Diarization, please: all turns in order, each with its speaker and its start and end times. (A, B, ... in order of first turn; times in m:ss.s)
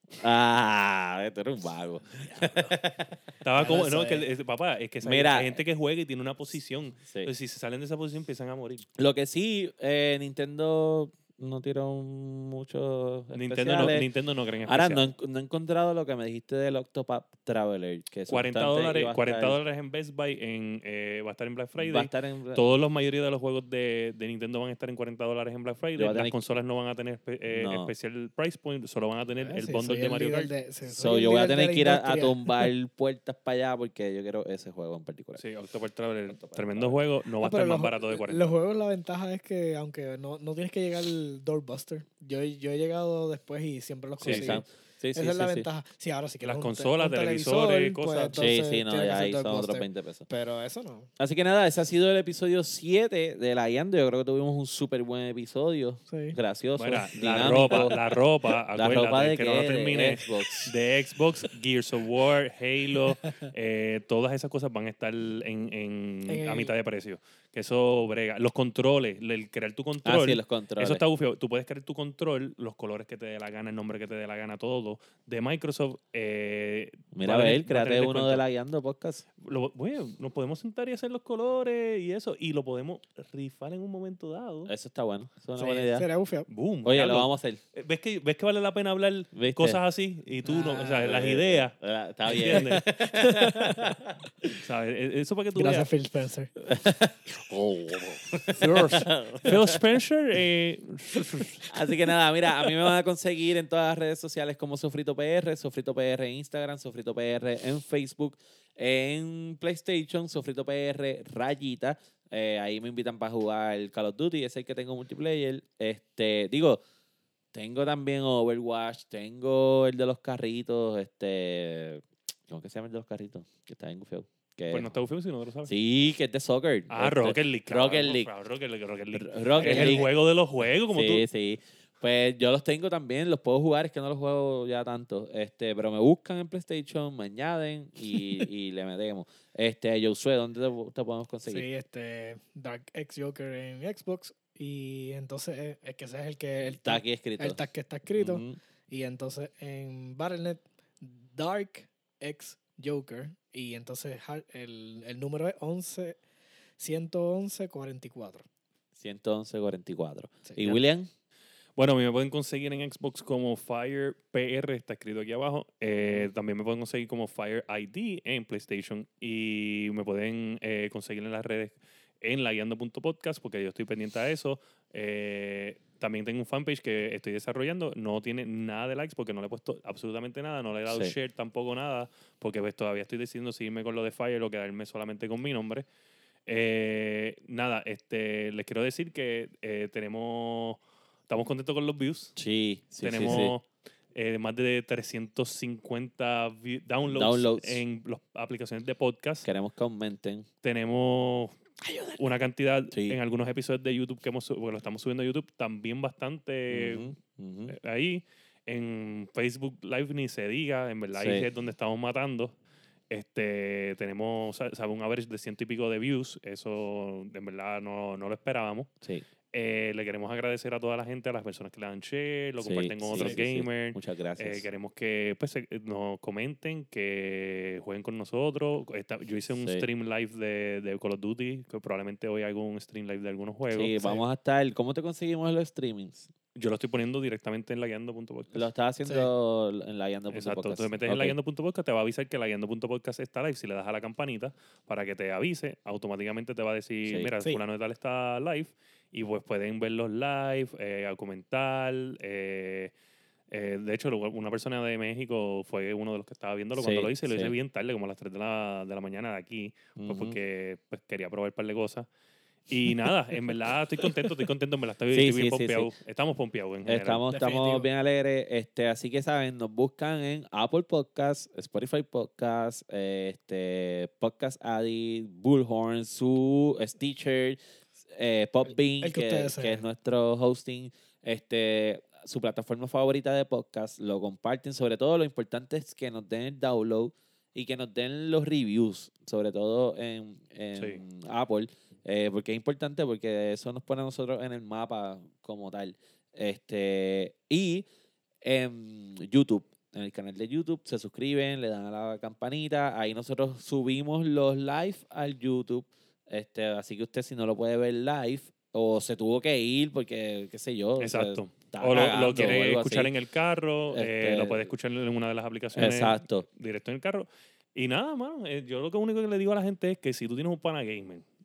0:00.2-0:03.8 A
0:02.3-0:02.8 B
0:03.4-0:08.9 C
0:03.6-0:04.3 B
0:05.0-0:05.6 A
0:07.1-0:07.3 A
0:09.0-0:14.1 A
0:13.3-0:15.0 C
0:14.7-0:19.6 A
0:18.3-0:30.5 C
0:21.8-0:22.6 A
0:26.0-0:26.4 A
0:27.5-0:27.9 A
0:29.4-0:32.7 B
0:30.9-0:35.4 A
0:35.4-0:38.6 C
0:36.3-0:37.0 A
0:37.4-0:51.1 B
0:44.2-0:44.6 C
0:44.2-0:45.7 A
0:46.4-0:48.4 C
0:48.3-0:50.3 A
0:51.2-0:58.0 A
0:56.1-0:56.4 B
0:56.8-1:18.4 C
0:58.7-1:00.7 A
1:06.3-1:06.7 B
1:10.0-1:11.0 A
1:17.1-1:19.2 A
1:19.4-1:24.7 C
1:24.7-1:26.1 A
1:25.6-1:26.5 B
1:26.5-1:31.8 C
1:26.8-1:27.6 A
1:29.3-1:29.8 A
1:30.5-1:31.1 B
1:31.0-1:34.5 A
1:32.3-1:32.9 C
1:32.3-1:33.9 B
1:34.6-1:35.9 C
1:35.6-1:36.5 B
1:36.6-1:39.8 A
1:38.6-1:39.1 B
1:38.6-1:41.7 C
1:41.7-1:56.8 A
1:57.5-2:05.0 A
2:04.7-2:05.7 C
2:05.6-2:08.3 A
2:06.9-2:11.2 C
2:09.1-2:10.1 A
2:10.9-2:21.7 A
2:21.5-2:36.2 B
2:26.7-2:27.6 A
2:28.2-2:28.6 A
2:36.8-2:38.4 B
2:39.0-2:41.1 A
2:40.5-2:40.8 B
2:41.8-3:05.8 C
3:00.9-3:01.1 A
3:06.5-3:12.4 C
3:12.4-3:13.6 A
3:13.0-3:19.4 C
3:17.1-3:17.8 A
3:19.4-3:20.5 A
3:20.6-3:21.6 C
3:22.1-3:27.1 C
3:22.9-3:23.2 A
3:26.7-3:27.8 A
3:27.7-3:32.5 C
3:31.2-3:31.5 A
3:33.1-3:38.9 C
3:39.5-3:53.9 C
3:42.6-3:44.7 A
3:53.7-3:56.3 A
3:56.6-3:58.7 C
3:58.5-4:01.4 A
4:00.3-4:12.9 C
4:07.1-4:07.3 A
4:13.5-4:22.1 C
4:16.8-4:17.5 A
4:20.0-4:20.4 A
4:22.7-4:27.2 C
4:25.1-4:25.9 A
4:26.9-4:57.9 A
4:27.3-4:27.9 B
4:38.7-4:39.8 B
4:50.8-4:51.0 C
4:58.4-5:13.1 A
5:11.0-5:21.2 C
5:13.9-5:14.7 A
5:15.8-5:16.5 A